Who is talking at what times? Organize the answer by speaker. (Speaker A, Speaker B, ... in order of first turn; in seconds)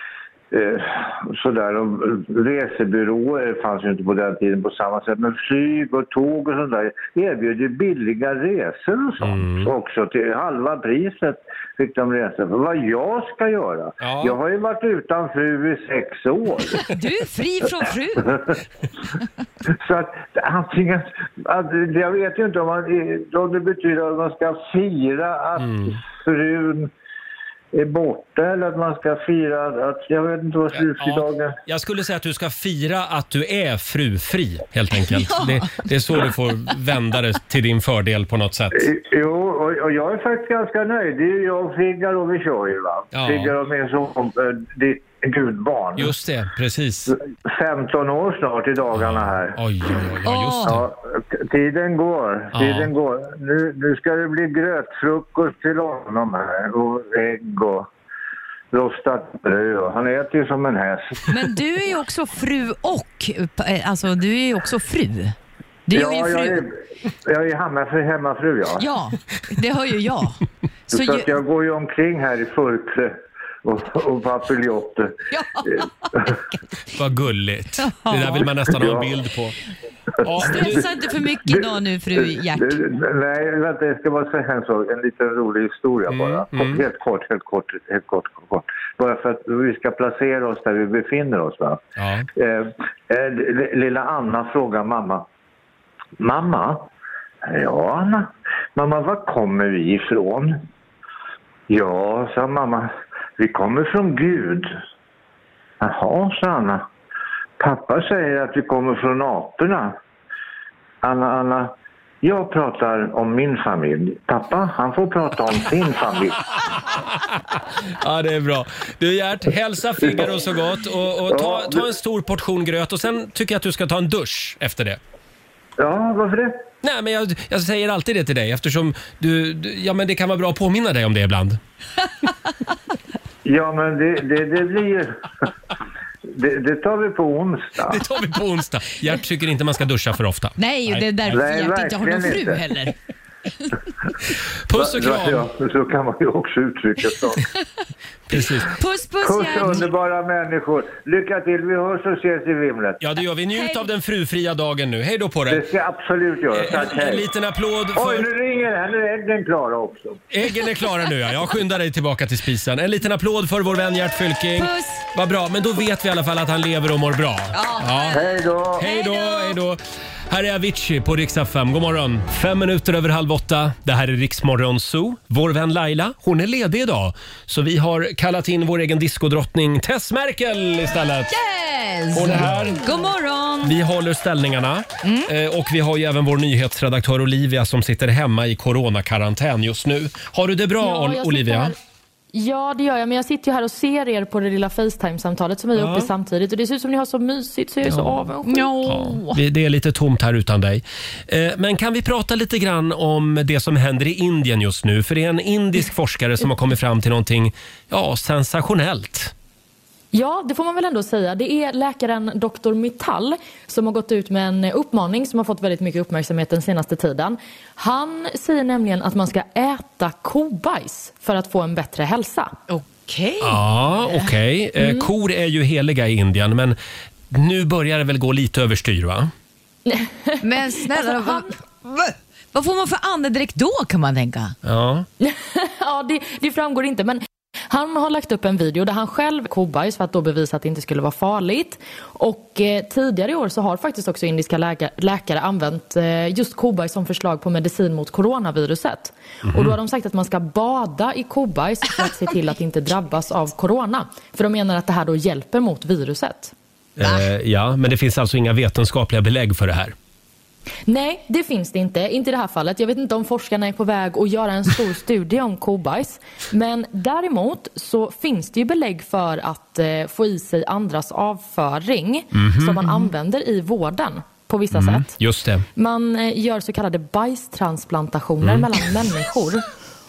Speaker A: 0.5-16.9, 19.7-26.9, 27.7-31.5, 38.7-46.1, 47.5-49.6, 50.7-57.9, 58.7-61.5, 65.9-68.9, 70.9-73.1, 73.6-76.3, 78.7-79.1, 80.4-80.8, 81.4-95.2, 96.2-96.8, 97.4-100.6, 101.7-104.7, 105.8-106.9, 107.6-110.0, 111.0-116.4, 120.0-120.3, 121.3-121.8, 125.8-126.6, 133.4-135.1, 136.3-138.0, 141.3-142.7, 144.7-147.4, 149.2-153.0, 155.5-157.3, 157.9-160.2, 168.1-168.9
Speaker B: 9.2-9.7, 14.0-14.3, 25.6-26.0, 30.7-38.9, 43.1-43.5, 46.0-47.1, 48.9-50.9, 52.5-52.9, 76.9-79.5, 80.2-80.9, 86.1-86.8, 92.0-92.3, 117.1-125.0, 126.8-131.6, 137.9-141.3, 144.7-145.5, 148.3-148.7, 153.0-155.6, 156.5-158.3, 160.3-168.2, 168.8-181.3, 182.1-182.9, 183.6-191.7, 195.7-196.1, 197.8-198.2, 198.8-209.3, 223.4-226.8, 227.3-229.3, 234.6-235.1, 249.4-249.8, 257.0-259.9, 272.3-272.8, 274.7-275.6, 278.4-278.7
Speaker C: 16.8-18.4, 35.0-35.8, 50.2-50.8, 61.3-65.3, 65.9-66.6, 68.8-71.3, 75.3-76.5, 77.8-78.5, 80.3-82.8, 140.6-142.9, 148.7-149.9, 164.6-165.1, 167.5-169.6, 181.3-183.7, 185.0-185.3, 198.4-199.4, 222.7-224.3, 230.4-234.6
Speaker D: 190.8-191.7, 192.3-198.7, 210.1-222.5, 229.9-230.3, 231.0-231.4, 235.2-256.5, 260.9-275.1, 275.7-279.6